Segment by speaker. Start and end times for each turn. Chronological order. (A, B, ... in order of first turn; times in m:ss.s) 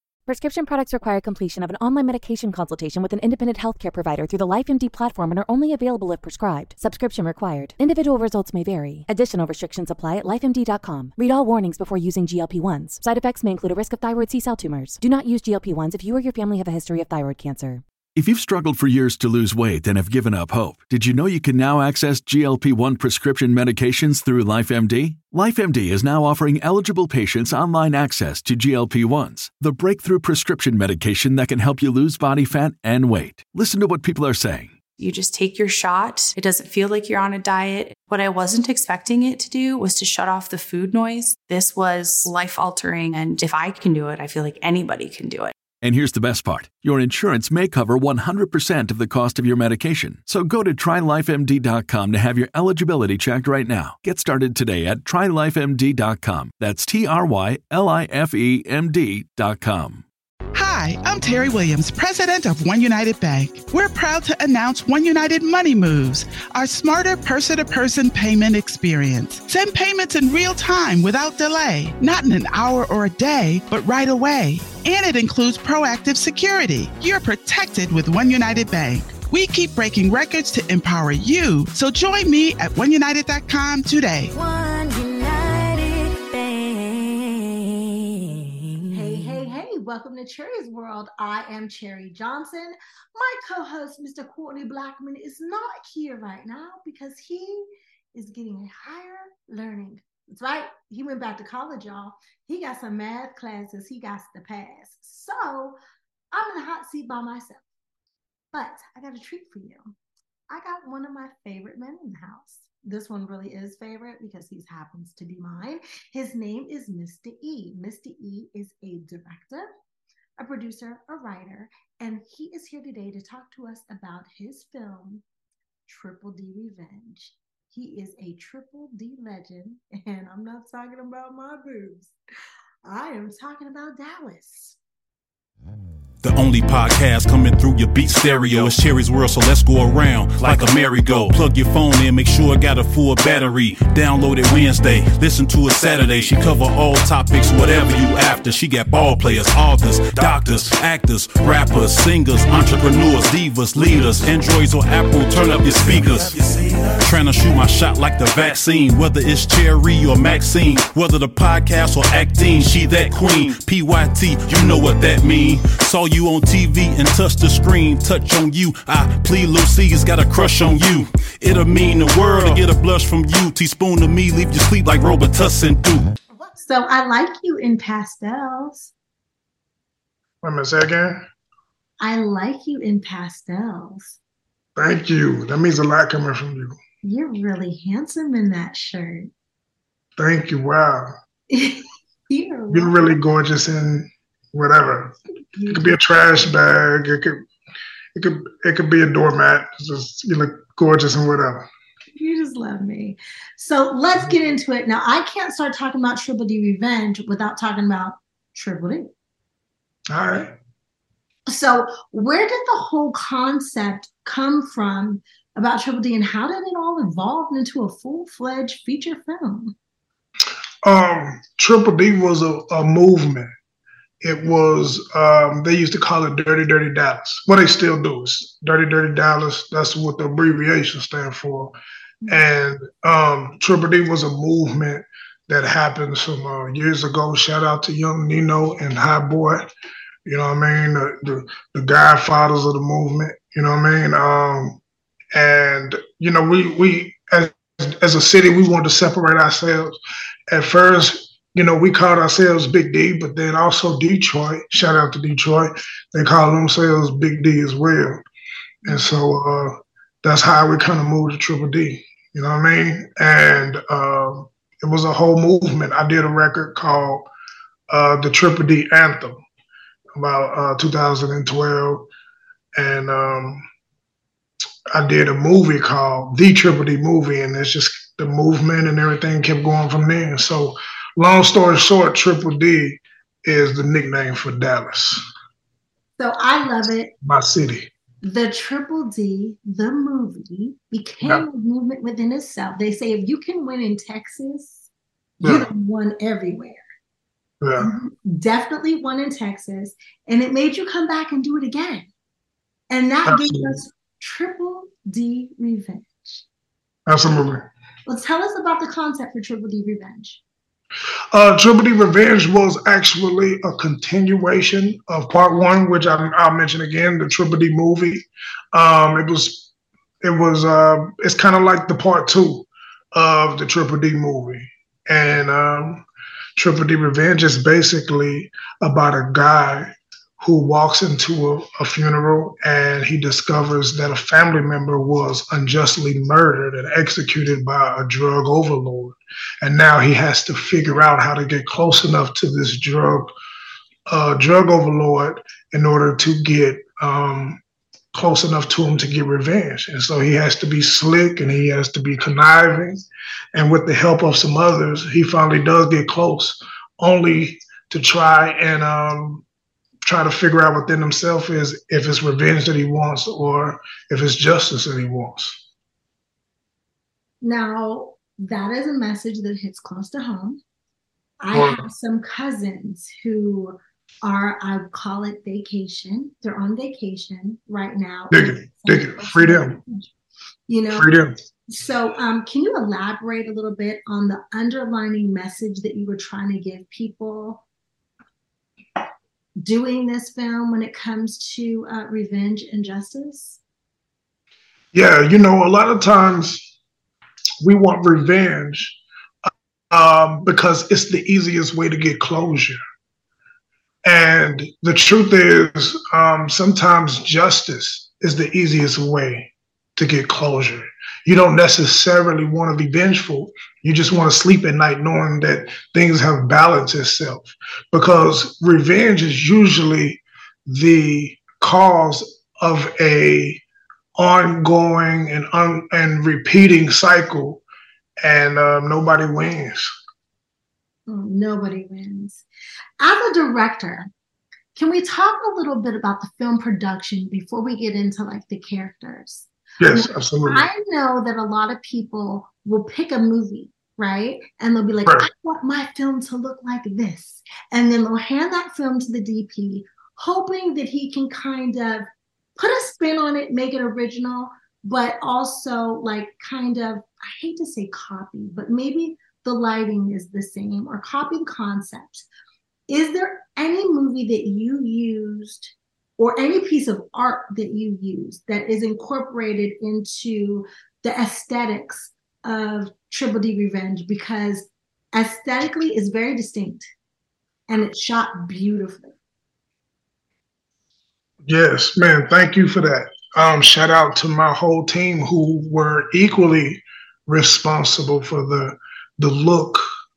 0:00.3-0:17.8 A
0:18.2-0:34.8 B
0:35.0-0:45.5 C
0:45.8-1:00.0 B
1:00.5-1:24.3 D
1:24.4-1:27.5 C
1:28.9-1:45.8 E
1:46.3-1:47.6 E
1:48.5-1:49.9 E
1:50.5-1:59.7 E
2:00.4-2:05.2 E
2:05.9-2:12.1 E
2:12.8-2:14.8 E
2:16.2-2:56.1 F
2:56.4-2:58.9 E
3:00.4-3:01.2 G
3:02.0-3:04.2 E
3:04.8-3:06.8 G
3:07.0-3:09.3 E
3:10.2-3:11.1 G
3:11.5-3:13.2 E
3:12.7-3:15.2 G
3:15.6-3:16.0 E
3:15.7-3:17.4 G
3:18.2-3:21.6 G
3:22.2-3:29.1 E
3:30.1-3:30.6 G
3:31.5-3:39.8 E
3:40.8-3:43.5 G
3:44.2-3:51.8 G
3:52.3-3:59.7 G
4:00.3-4:04.8 G
4:05.3-4:10.0 G
4:10.5-4:18.2 G
4:18.8-4:27.3 G
4:27.9-4:29.4 G
4:30.2-4:32.1 G
4:32.8-4:33.6 G
4:34.9-4:45.2 G
4:46.2-4:47.1 E
4:47.2-4:47.9 G
4:48.2-4:54.9 E
4:55.4-4:55.7 G
4:55.4-4:56.8 E
4:57.6-4:57.9 G
4:57.8-5:02.1 E
5:02.9-5:06.4 E
5:03.3-5:03.8 G
5:07.1-5:07.7 G
5:08.1-5:10.4 E
5:11.3-5:26.0 G
5:26.6-5:43.3 G
5:44.1-5:47.6 G
5:48.1-5:59.4 G
6:00.0-6:05.6 G
6:07.4-6:10.6 E
6:11.4-6:20.1 E
6:11.5-6:11.9 G
6:18.3-6:19.8 G
6:20.7-6:21.1 E
6:20.9-6:21.4 G
6:21.7-6:27.6 E
6:29.6-6:33.6 E
6:34.9-6:36.7 G
6:37.6-6:39.0 G
6:39.5-6:42.8 G
6:44.0-7:03.6 G
7:04.2-7:07.6 G
7:08.2-7:10.0 G
7:11.1-7:12.4 E
7:13.0-7:14.1 E
7:14.8-7:32.0 E
7:19.8-7:20.7 G
7:32.6-7:42.3 E
7:42.9-7:56.8 E
7:57.7-7:59.2 E
8:01.4-8:09.8 G